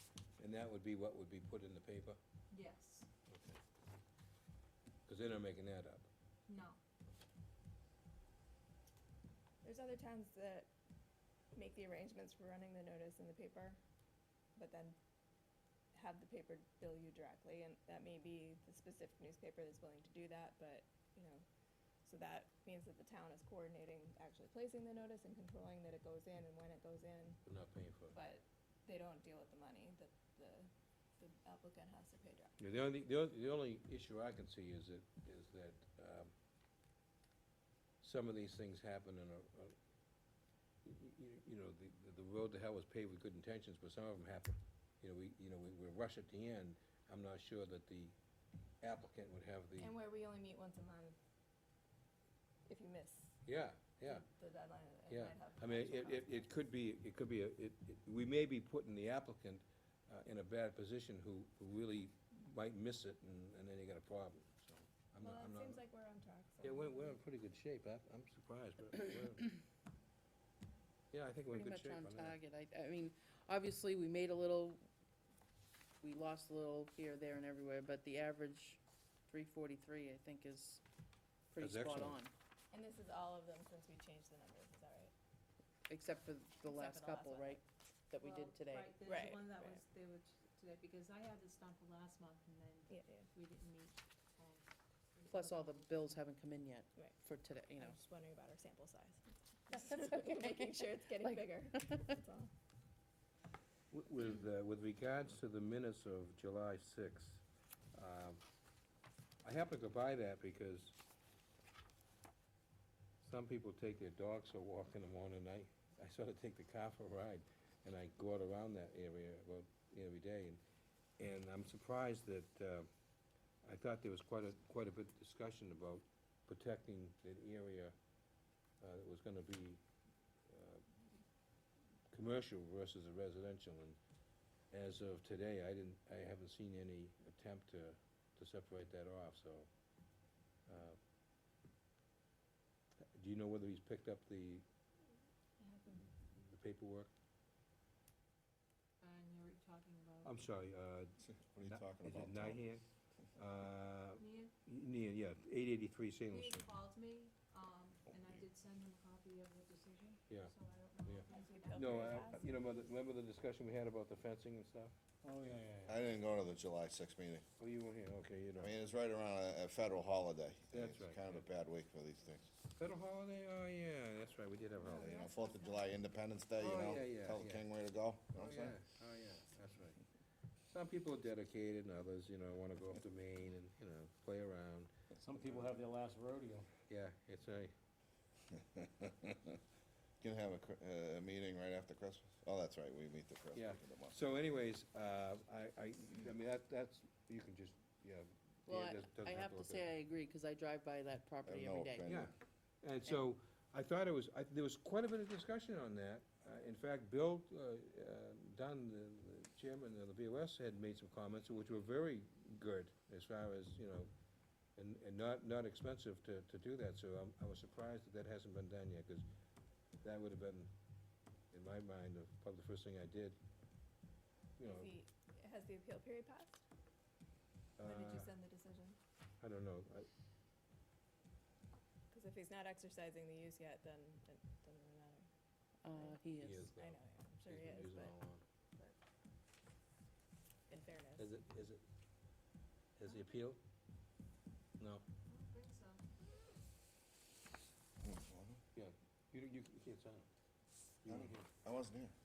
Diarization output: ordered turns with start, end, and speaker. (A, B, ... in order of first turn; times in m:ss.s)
0:00.4-0:02.2 A
0:02.5-0:03.1 B
0:03.3-0:03.6 A
0:05.1-0:06.1 A
0:06.5-0:06.8 B
0:09.6-0:10.7 C
0:11.5-0:13.8 C
0:14.6-0:15.0 C
0:15.9-0:21.4 C
0:22.0-0:27.4 C
0:27.5-0:28.2 A
0:28.1-0:32.5 C
0:32.6-0:36.3 A
0:38.0-0:39.8 A
0:40.8-0:48.2 A
0:48.8-0:49.9 A
0:49.8-0:51.2 C
0:52.7-0:53.4 C
0:53.4-0:54.2 A
0:54.0-0:56.5 C
0:55.1-1:05.8 A
1:05.2-1:07.2 C
1:06.6-1:09.5 A
1:11.1-1:12.4 A
1:11.5-1:14.8 D
1:16.0-1:20.8 D
1:21.5-1:22.3 D
1:21.6-1:22.2 A
1:22.7-1:25.1 C
1:25.9-1:29.0 D
1:26.6-1:27.6 C
1:28.2-1:36.0 B
1:28.2-1:28.5 C
1:29.0-1:29.8 C
1:32.9-1:33.3 C
1:35.2-1:38.0 D
1:37.7-1:42.5 C
1:39.9-1:40.6 D
1:41.2-1:41.5 D
1:43.9-1:47.4 A
1:47.9-1:48.4 A
1:49.4-1:51.0 A
1:53.2-2:00.6 A
2:01.2-2:02.9 A
2:03.6-2:08.0 A
2:08.8-2:09.8 A
2:10.5-2:11.0 A
2:12.1-2:14.0 A
2:14.7-2:19.7 A
2:20.7-2:21.0 A
2:23.1-2:24.6 A
2:25.6-2:26.1 B
2:26.2-2:27.1 A
2:29.0-2:30.4 B
2:30.2-2:36.7 A
2:31.2-2:32.6 E
2:34.2-2:34.5 B
2:36.3-2:42.3 B
2:41.0-2:44.9 A
2:41.3-2:42.4 C
2:45.2-2:46.0 F
2:45.8-2:47.5 E
2:47.6-2:48.7 A
2:48.6-2:52.5 E
2:50.7-2:51.4 A
2:52.8-2:55.3 A
2:55.0-2:58.8 E
2:55.3-2:55.7 B
2:56.6-2:57.6 A
2:58.3-3:00.0 A
3:00.7-3:04.9 A
3:05.2-3:06.7 F
3:06.9-3:07.7 A
3:08.6-3:09.6 E
3:10.2-3:14.2 E
3:13.5-3:19.9 A
3:18.7-3:22.1 D
3:21.4-3:22.3 E
3:22.1-3:34.1 A
3:34.8-3:39.3 A
3:40.0-3:40.7 A
3:41.5-3:43.4 A
3:44.6-3:45.0 A
3:44.6-3:46.6 C
3:47.8-3:48.3 A
3:47.8-3:49.0 C
3:49.4-3:50.1 A
3:52.1-3:55.2 C
3:55.8-3:56.7 D
3:55.9-3:58.2 C
3:56.4-3:58.4 A
4:00.7-4:01.3 C
4:01.2-4:01.8 A
4:03.0-4:03.6 A
4:05.3-4:06.1 B
4:08.0-4:08.6 E
4:08.8-4:10.3 A
4:11.0-4:11.5 A
4:11.1-4:12.1 E